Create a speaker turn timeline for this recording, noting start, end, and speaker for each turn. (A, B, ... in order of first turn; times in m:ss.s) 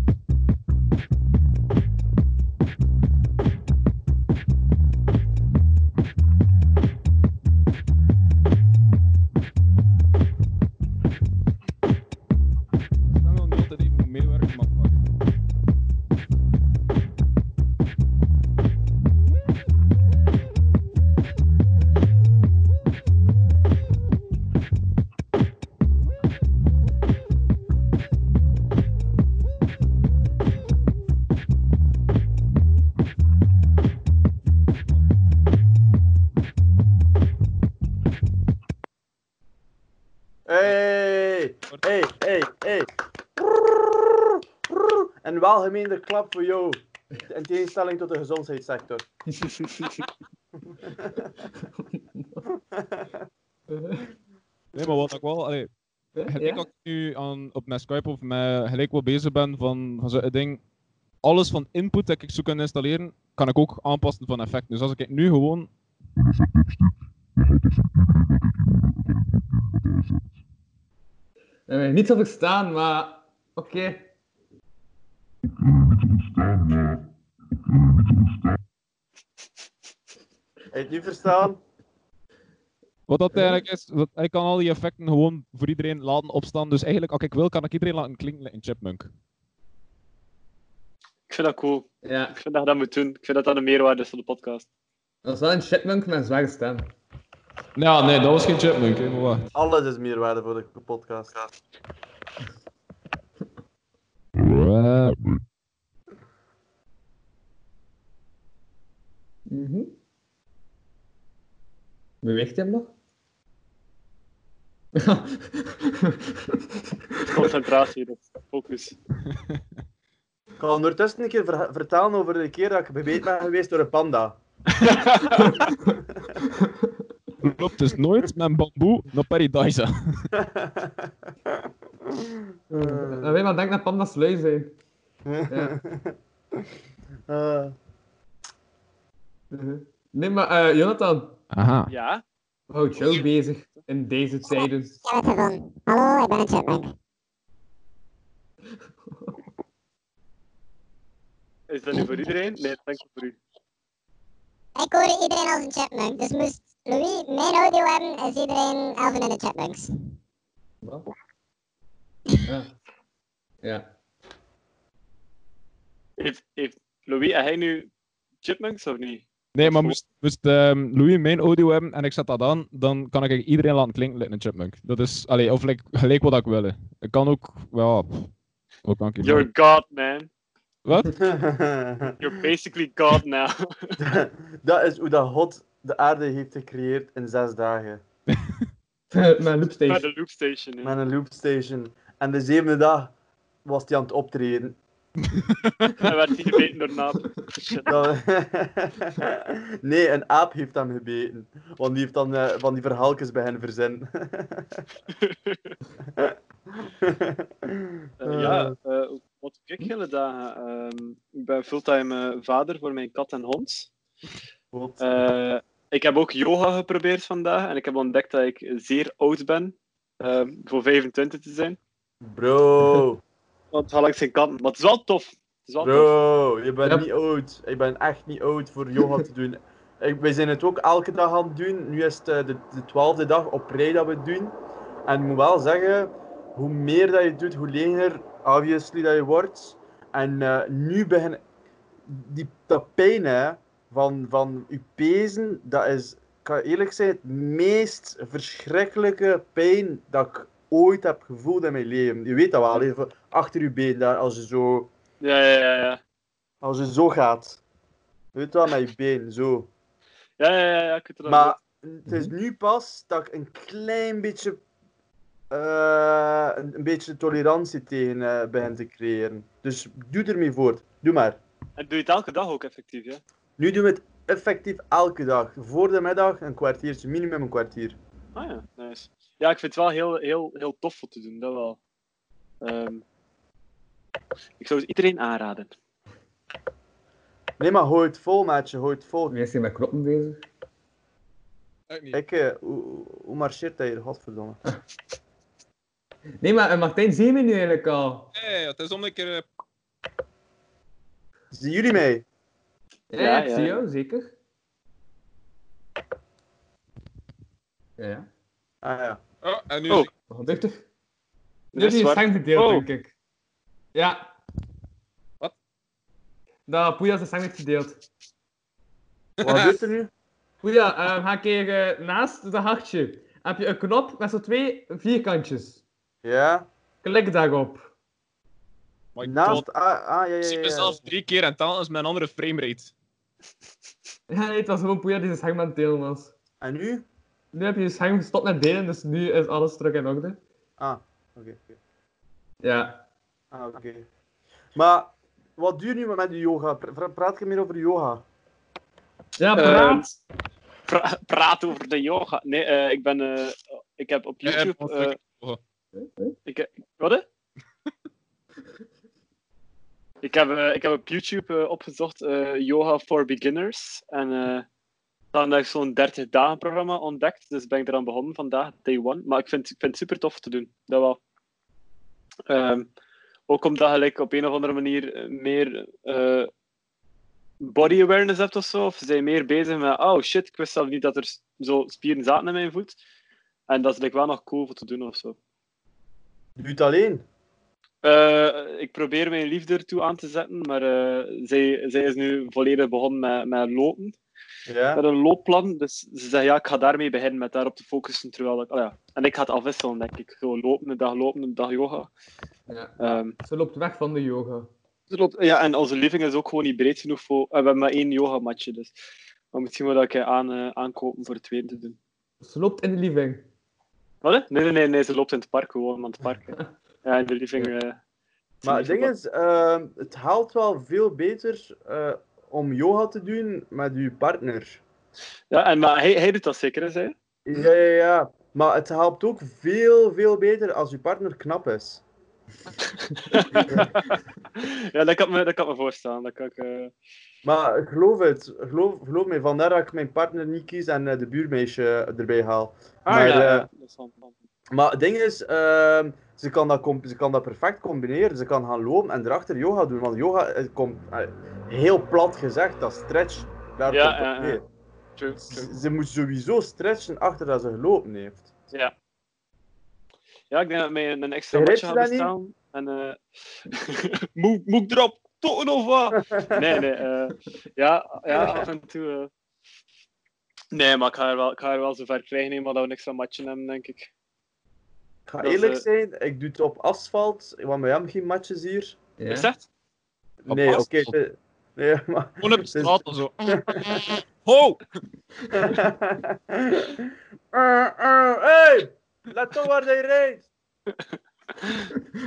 0:13.1-0:15.1 A
0:40.5-0:49.0 B
0:50.7-0:51.3 B
0:51.5-0:52.4 C
0:52.5-0:53.2 B
0:53.7-0:54.1 C
0:54.8-0:55.7 A
0:56.2-0:56.6 C
0:56.3-1:00.6 A
1:01.2-1:05.7 A
1:11.7-1:14.1 C
1:20.7-1:21.6 B
1:23.1-1:29.1 A
1:23.3-1:23.6 C
1:31.3-1:34.7 D
1:32.0-1:32.4 C
1:35.2-1:36.9 C
1:37.8-1:39.5 A
1:39.5-1:41.5 B
1:44.4-1:45.4 A
1:49.5-1:49.9 C
1:52.2-1:52.9 C
1:55.0-1:56.6 C
1:57.3-1:59.0 D
2:00.6-2:04.4 B
2:04.8-2:05.6 A
2:06.0-2:06.3 B
2:06.6-2:06.9 C
2:07.4-2:10.3 A
2:10.4-2:13.4 B
2:12.7-2:14.7 C
2:15.2-2:16.2 B
2:15.5-2:15.7 C
2:17.3-2:17.7 B
2:19.5-2:21.4 C
2:21.5-2:21.9 A
2:21.9-2:22.2 D
2:22.7-2:25.0 C
2:25.0-2:26.9 E
2:31.7-2:33.4 D
2:34.8-2:39.9 E
2:40.8-2:41.1 C
2:42.5-2:42.7 C
2:46.2-2:47.9 D
2:48.4-2:50.0 D
2:49.6-2:58.3 A
2:58.8-2:59.5 A
2:59.2-3:00.3 D
3:00.8-3:01.1 A
3:01.1-3:02.3 B
3:02.2-3:04.0 D
3:04.0-3:08.0 B
3:09.1-3:10.1 C
3:09.9-3:11.0 D
3:10.8-3:13.1 B
3:13.6-3:14.8 B
3:15.3-3:16.1 A
3:16.0-3:18.1 D
3:17.9-3:24.9 B
3:25.2-3:25.7 D
3:26.1-3:28.7 B
3:28.2-3:33.9 D
3:34.7-3:35.1 B
3:35.0-3:41.8 D
3:42.2-3:43.2 B
3:43.7-3:46.1 D
3:45.8-3:54.6 B
3:55.1-4:01.4 B
4:02.1-4:14.9 B
4:15.2-4:16.0 D
4:16.6-4:17.6 B
4:18.4-4:19.7 B
4:20.4-4:21.6 D
4:21.2-4:24.6 B
4:25.5-4:31.4 B
4:31.8-4:33.2 D
4:33.6-4:38.0 B
4:38.4-4:41.8 D
4:42.6-4:43.0 D
4:44.6-4:45.7 D
4:47.6-4:49.4 B
4:49.3-4:50.4 C
4:51.9-4:52.2 A
4:52.1-4:54.6 B
4:56.4-4:58.3 C
4:58.3-4:59.4 A
5:01.5-5:02.2 B
5:03.1-5:04.3 C
5:03.2-5:03.8 D
5:08.0-5:08.3 C
5:08.8-5:09.2 B
5:09.4-5:10.1 A
5:10.3-5:10.8 C
5:11.7-5:12.8 D
5:11.8-5:13.1 C
5:13.9-5:14.2 C
5:16.7-5:18.0 C
5:19.4-5:19.8 A
5:19.4-5:20.1 B
5:20.6-5:25.8 C
5:26.2-5:26.7 B
5:27.0-5:27.9 C
5:29.2-5:29.6 A
5:29.2-5:31.0 B
5:30.4-5:32.9 A
5:34.3-5:36.3 C
5:36.6-5:37.1 B
5:37.5-5:40.4 C
5:40.8-5:41.8 B
5:42.6-5:43.0 C
5:43.5-5:44.1 B
5:44.7-5:48.2 B
5:49.4-5:50.1 C
5:49.6-5:50.2 D
5:50.9-5:55.2 D
5:54.4-5:55.6 A
5:56.0-5:56.3 C
5:56.4-5:57.2 D
6:00.2-6:04.6 D
6:05.3-6:11.2 D
6:12.5-6:12.9 D
6:13.5-6:16.5 D
6:17.6-6:23.0 D
6:23.7-6:25.4 D
6:26.6-6:27.2 B
6:28.0-6:34.2 D
6:34.7-6:35.0 B
6:34.9-6:42.1 D
6:42.7-6:44.7 C
6:43.0-6:43.3 D
6:45.1-6:48.9 D
6:49.5-6:52.0 D
6:52.4-6:53.4 C
6:54.2-6:56.5 D
6:57.0-6:58.0 D
6:58.6-6:59.1 D
6:58.6-7:04.8 B
7:05.5-7:07.1 D
7:07.4-7:12.0 B
7:13.1-7:16.9 D
7:17.4-7:23.7 B
7:23.1-7:24.4 D
7:24.7-7:34.6 B
7:33.9-7:34.6 D
7:35.2-7:35.7 D
7:35.4-7:38.5 B
7:40.5-7:49.3 D
7:41.5-7:42.3 B
7:46.3-7:46.7 B
7:48.3-7:48.6 B
7:50.7-7:54.1 D
7:55.3-7:59.0 B
7:55.4-7:55.8 D
7:59.2-7:59.5 C
7:59.3-7:59.6 D
8:00.4-8:04.0 B
8:00.5-8:01.1 A
8:02.4-8:04.8 A
8:05.5-8:10.5 B
8:11.6-8:11.9 D